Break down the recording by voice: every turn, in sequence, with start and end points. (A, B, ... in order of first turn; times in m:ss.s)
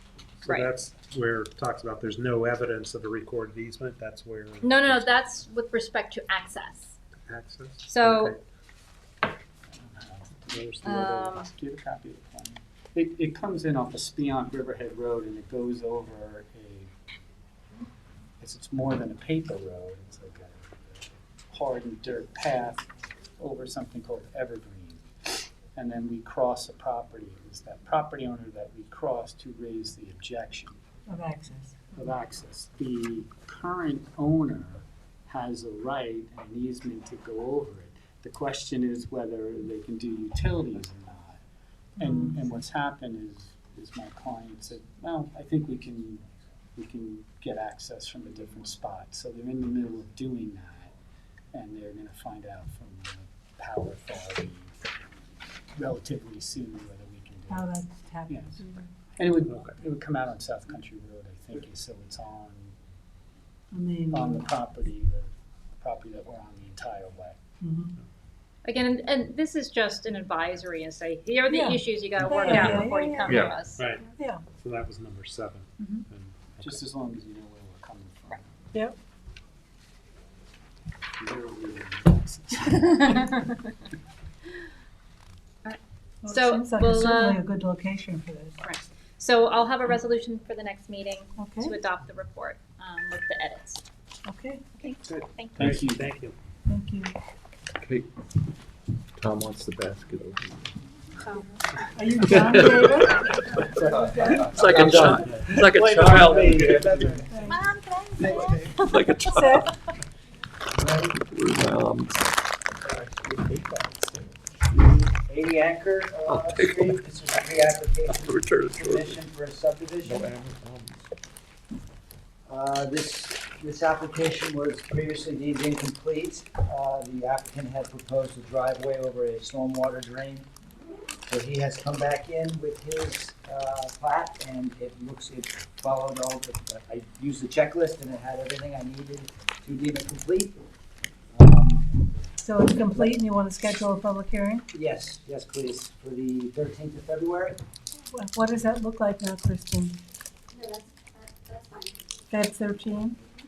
0:00.4-0:05.0 A
0:00.4-0:00.8 B
0:04.6-0:06.9 B
0:07.3-0:08.4 A
0:07.9-0:08.4 B
0:09.7-0:16.9 C
0:10.8-0:11.5 B
0:18.4-0:22.9 C
0:23.4-0:30.8 C
0:31.1-0:32.0 D
0:31.9-0:41.4 C
0:42.0-0:42.4 D
0:42.0-0:46.2 C
0:46.8-0:50.9 C
0:51.5-0:54.8 C
0:55.7-0:58.6 C
0:57.5-0:58.8 D
0:59.2-1:02.7 C
1:03.7-1:04.4 D
1:04.1-1:07.4 C
1:07.6-1:08.0 D
1:08.6-1:13.9 B
1:11.5-1:13.4 D
1:12.5-1:12.9 A
1:13.2-1:13.5 E
1:13.7-1:16.8 A
1:14.2-1:14.4 D
1:15.8-1:16.0 B
1:16.6-1:18.5 C
1:21.2-1:23.4 C
1:23.1-1:23.5 B
1:25.6-1:27.4 B
1:26.2-1:28.6 D
1:28.6-1:33.8 B
1:31.4-1:31.8 D
1:34.2-1:34.6 D
1:34.8-1:35.9 B
1:35.6-1:36.2 C
1:35.6-1:36.3 A
1:36.7-1:37.1 D
1:37.8-1:38.1 E
1:39.2-1:40.6 E
1:41.9-1:44.5 D
1:42.4-1:42.8 E
1:44.2-1:47.0 E
1:44.6-1:44.9 C
1:45.2-1:47.3 A
1:47.3-1:47.6 D
1:48.2-1:48.4 F
1:48.8-1:49.6 E
1:49.2-1:49.7 D
1:51.2-1:52.2 E
1:55.2-2:00.3 F
1:56.3-1:57.0 E
1:58.2-1:59.2 E
2:02.5-2:10.5 F
2:11.3-2:20.6 F
2:21.3-2:21.9 F
2:22.4-2:24.6 D
2:24.7-2:27.6 F
2:28.1-2:30.0 D
2:32.3-2:33.2 D